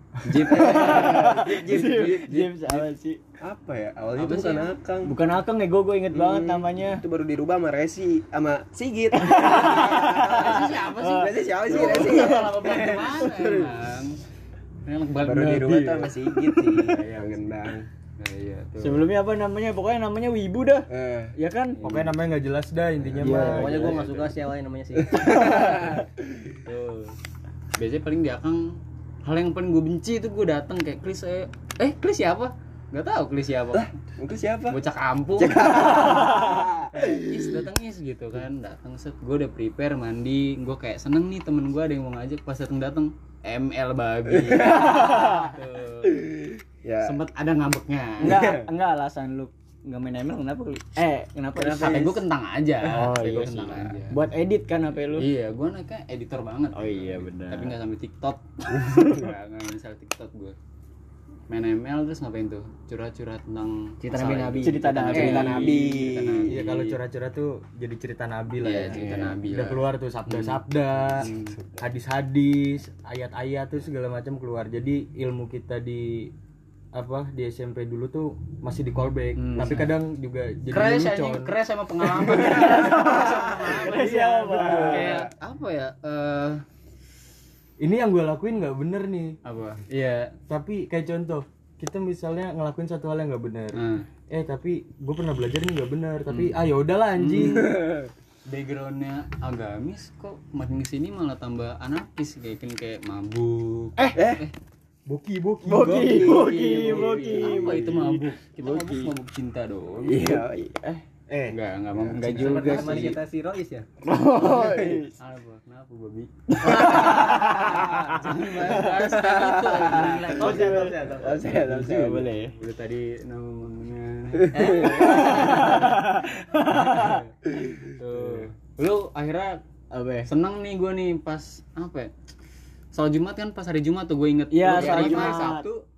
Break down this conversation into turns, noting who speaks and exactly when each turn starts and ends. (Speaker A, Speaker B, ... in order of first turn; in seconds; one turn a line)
Speaker A: 0.2-1.9
Speaker B: 0.5-3.2
Speaker C: 0.7-2.8
Speaker C: 3.4-5.1
Speaker A: 4.1-4.7
Speaker B: 5.0-7.0
Speaker C: 6.1-13.7
Speaker B: 9.2-13.2
Speaker A: 10.0-14.2
Speaker A: 14.8-16.1
Speaker C: 15.2-17.9
Speaker B: 15.5-16.5
Speaker A: 16.9-17.4
Speaker A: 18.2-19.1
Speaker B: 18.8-21.8
Speaker C: 20.9-21.3
Speaker A: 21.8-22.1
Speaker D: 21.8-24.1
Speaker B: 23.2-24.0
Speaker E: 23.4-25.7
Speaker A: 23.9-24.3
Speaker C: 25.2-26.5
Speaker A: 26.6-27.1
Speaker A: 27.8-33.9
Speaker C: 33.7-34.8
Speaker A: 34.7-36.0
Speaker C: 35.4-37.6
Speaker A: 36.9-46.3
Speaker C: 44.4-45.3
Speaker B: 44.8-45.5
Speaker C: 46.8-47.1
Speaker A: 47.0-48.5
Speaker B: 48.2-52.2
Speaker C: 48.2-48.6
Speaker A: 51.6-54.2
Speaker B: 52.8-55.3
Speaker A: 55.1-60.5
Speaker B: 56.7-57.7
Speaker A: 61.5-67.0
Speaker E: 64.0-64.8
Speaker B: 64.6-65.7
Speaker C: 65.1-66.5
Speaker D: 66.5-76.3
Speaker A: 68.6-70.6
Speaker C: 68.9-69.4
Speaker A: 71.2-71.5
Speaker D: 76.9-85.2
Speaker A: 79.4-79.9
Speaker A: 80.7-84.1
Speaker B: 82.5-85.1
Speaker A: 84.7-86.6
Speaker D: 87.8-89.4
Speaker A: 89.4-90.3
Speaker D: 90.5-97.8
Speaker A: 93.7-94.0
Speaker A: 96.3-96.6
Speaker A: 97.2-97.8
Speaker C: 97.4-98.0
Speaker A: 98.5-104.5
Speaker C: 104.1-104.4
Speaker D: 105.1-107.1
Speaker B: 105.6-108.2
Speaker A: 106.3-110.4
Speaker C: 106.5-107.9
Speaker E: 108.6-108.9
Speaker C: 110.0-110.8
Speaker D: 111.3-111.5
Speaker A: 111.5-113.2
Speaker B: 112.1-113.2
Speaker E: 112.3-113.9
Speaker B: 114.0-115.1
Speaker C: 114.4-115.0
Speaker A: 115.2-120.8
Speaker B: 116.6-118.8
Speaker C: 118.8-120.6
Speaker B: 120.3-122.5
Speaker E: 120.4-121.5
Speaker C: 121.2-122.3
Speaker A: 121.5-121.8
Speaker A: 122.4-129.6
Speaker B: 124.5-127.2
Speaker C: 127.7-128.4
Speaker B: 129.9-130.3
Speaker A: 130.3-132.1
Speaker A: 132.9-135.7
Speaker B: 134.5-135.7
Speaker E: 134.8-135.7
Speaker C: 134.8-135.4